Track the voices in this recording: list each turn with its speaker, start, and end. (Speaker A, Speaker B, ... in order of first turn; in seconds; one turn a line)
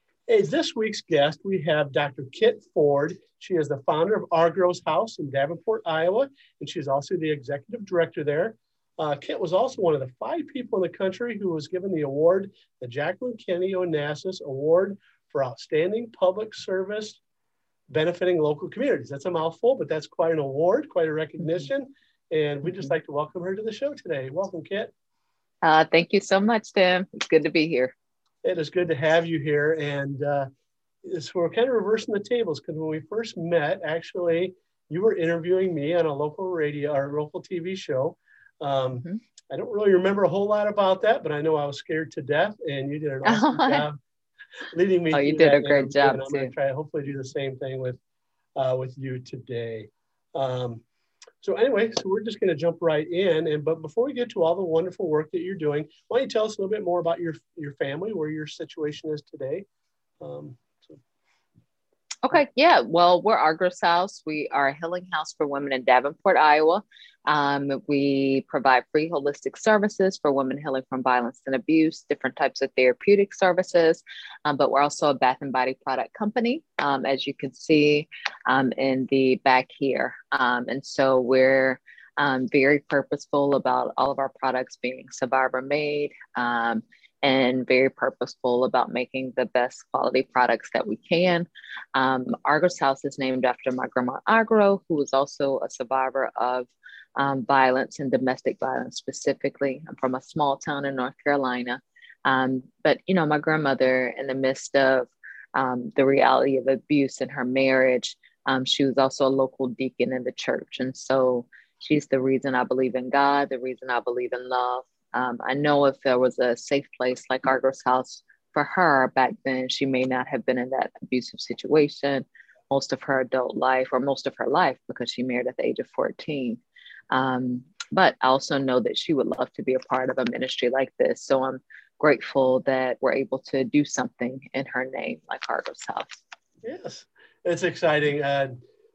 Speaker A: 0.3-17.2
Speaker A: 17.9-24.9
Speaker B: 25.6-27.9
Speaker A: 28.4-30.5
Speaker A: 31.0-44.0
Speaker B: 43.2-43.9
Speaker A: 44.7-48.0
Speaker B: 45.1-46.5
Speaker A: 48.6-50.8
Speaker A: 51.4-59.7
Speaker A: 60.2-61.0
Speaker B: 62.2-136.2
Speaker A: 136.6-138.6